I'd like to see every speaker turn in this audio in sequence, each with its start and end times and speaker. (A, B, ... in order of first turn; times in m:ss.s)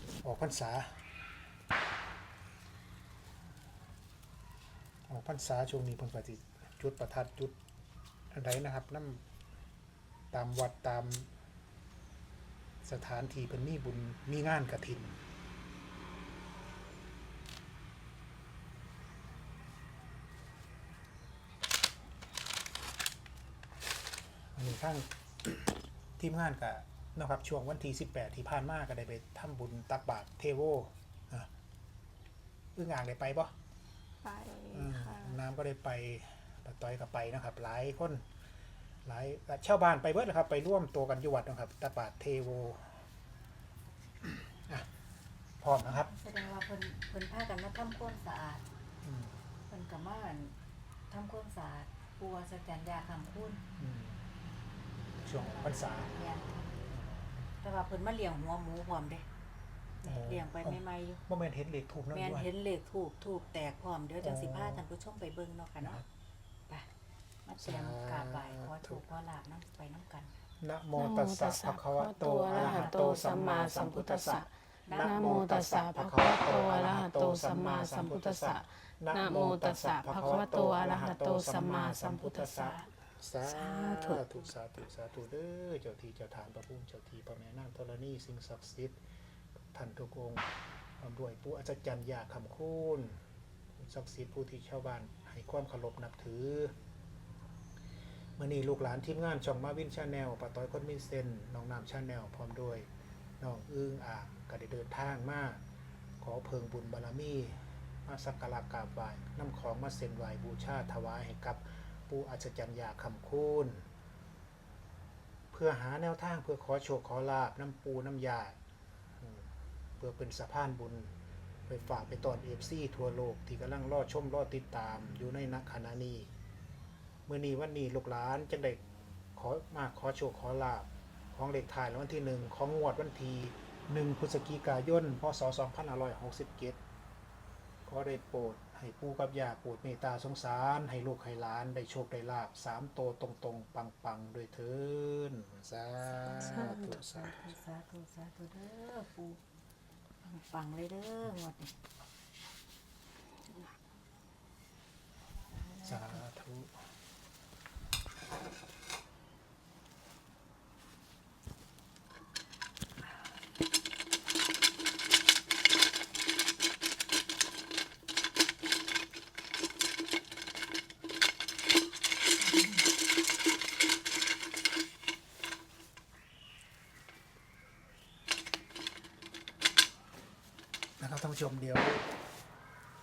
0:00.2-0:01.0 A
0:05.1-0:07.5 A
0:08.3-0:09.2 A
0:10.3-0:11.3 A
0:12.8-0:15.2 A
0:24.5-0:31.5 A
0:32.7-0:33.5 A
0:34.2-0:35.4 B
0:34.7-0:38.2 A
0:39.0-0:43.0 A
0:44.2-0:44.9 A
0:45.6-0:46.1 A
0:45.9-0:48.6 C
0:49.0-0:49.4 A
0:49.7-0:50.5 C
0:51.1-0:53.6 C
0:53.8-0:54.2 A
0:55.2-0:56.2 A
0:55.9-0:56.6 C
0:56.8-0:57.5 A
0:57.6-0:59.2 C
1:00.0-1:01.2 C
1:00.0-1:02.5 A
1:02.1-1:06.0 C
1:04.2-1:04.8 A
1:05.8-1:06.0 A
1:07.4-1:10.3 C
1:07.6-1:09.0 A
1:10.6-1:29.0 A
1:10.9-1:22.9 B
1:12.5-1:13.3 C
1:14.9-1:15.4 C
1:23.4-1:24.3 B
1:29.7-1:30.4 A
1:31.0-1:33.2 A
1:33.7-1:36.7 A
1:38.4-1:42.9 A
1:43.4-1:45.6 A
1:46.2-1:53.8 A
1:55.5-1:58.6 A
1:59.2-2:01.1 A
2:01.7-2:06.3 A
2:07.3-2:08.8 A
2:09.4-2:16.8 A
2:17.8-2:27.4 A
2:26.2-2:29.4 C
2:26.4-2:26.9 B
2:30.2-2:31.7 C
2:35.6-2:36.2 C
2:35.8-2:36.7 A
3:01.0-3:02.1 A